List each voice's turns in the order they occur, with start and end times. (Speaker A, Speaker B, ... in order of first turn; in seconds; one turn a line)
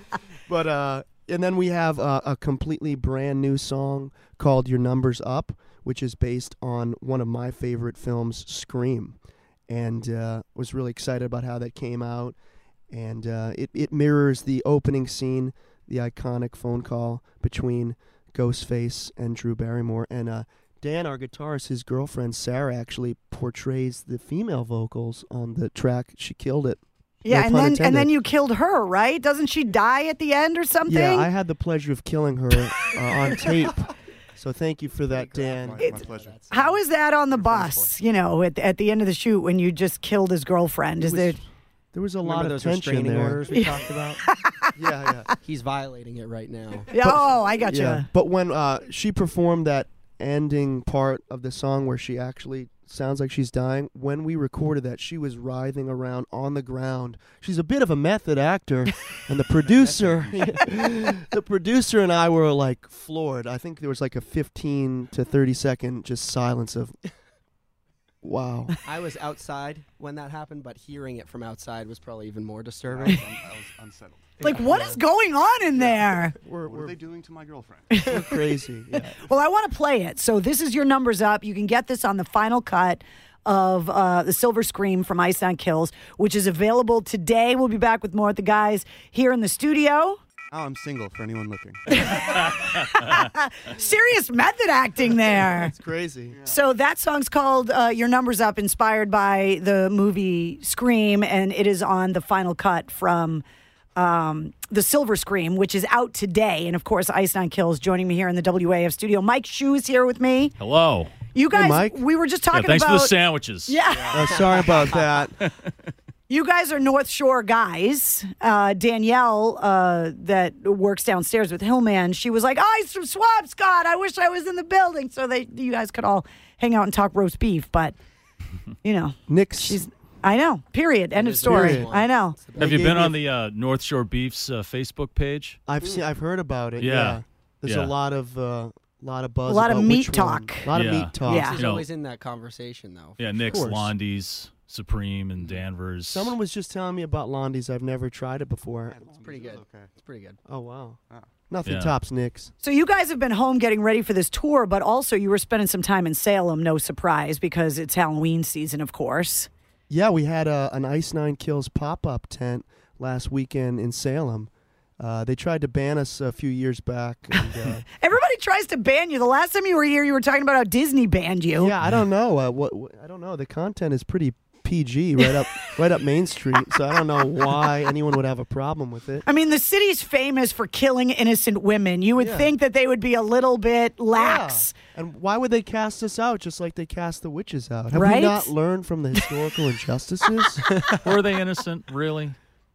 Speaker A: 0.5-12.3
Speaker A: 12.9-28.1
Speaker B: 27.2-31.3
Speaker A: 30.9-35.9
Speaker C: 35.1-36.5
Speaker D: 35.4-36.8
Speaker B: 35.8-41.4
Speaker D: 37.3-37.9
Speaker A: 41.0-41.4
Speaker A: 41.9-43.5
Speaker C: 42.2-44.2
Speaker B: 43.5-44.7
Speaker A: 44.7-45.3
Speaker C: 45.4-46.9
Speaker B: 46.9-48.1
Speaker A: 47.0-66.9
Speaker D: 59.6-60.5
Speaker A: 68.2-68.8
Speaker C: 68.8-73.3
Speaker D: 72.9-74.7
Speaker B: 74.4-76.3
Speaker C: 74.5-74.9
Speaker D: 75.8-76.1
Speaker A: 76.4-77.0
Speaker D: 76.6-78.2
Speaker B: 77.9-78.4
Speaker A: 78.0-79.2
Speaker B: 79.1-90.2
Speaker D: 90.5-92.5
Speaker B: 91.9-95.7
Speaker A: 95.3-96.4
Speaker B: 96.4-103.4
Speaker B: 104.0-110.5
Speaker E: 110.6-111.1
Speaker B: 111.3-113.1
Speaker A: 111.5-112.0
Speaker E: 112.5-113.8
Speaker B: 113.7-114.7
Speaker A: 114.1-115.4
Speaker B: 116.3-127.9
Speaker B: 128.8-132.4
Speaker A: 129.3-129.8
Speaker C: 131.1-133.0
Speaker A: 131.4-131.9
Speaker A: 132.6-133.2
Speaker E: 132.6-135.6
Speaker A: 135.7-141.6
Speaker E: 136.8-137.9
Speaker B: 139.4-140.7
Speaker E: 140.7-141.8
Speaker B: 141.2-141.6
Speaker C: 141.2-143.7
Speaker E: 143.2-146.3
Speaker A: 143.4-143.9
Speaker A: 146.1-149.0
Speaker D: 148.9-149.9
Speaker C: 149.2-150.4
Speaker A: 150.5-151.0
Speaker A: 151.5-152.5
Speaker E: 151.7-151.9
Speaker B: 152.6-159.5
Speaker A: 159.9-167.8
Speaker B: 167.9-171.7
Speaker A: 171.5-179.3
Speaker B: 179.2-184.7
Speaker A: 182.2-182.5
Speaker A: 184.1-190.7
Speaker B: 187.9-188.5
Speaker E: 190.9-192.3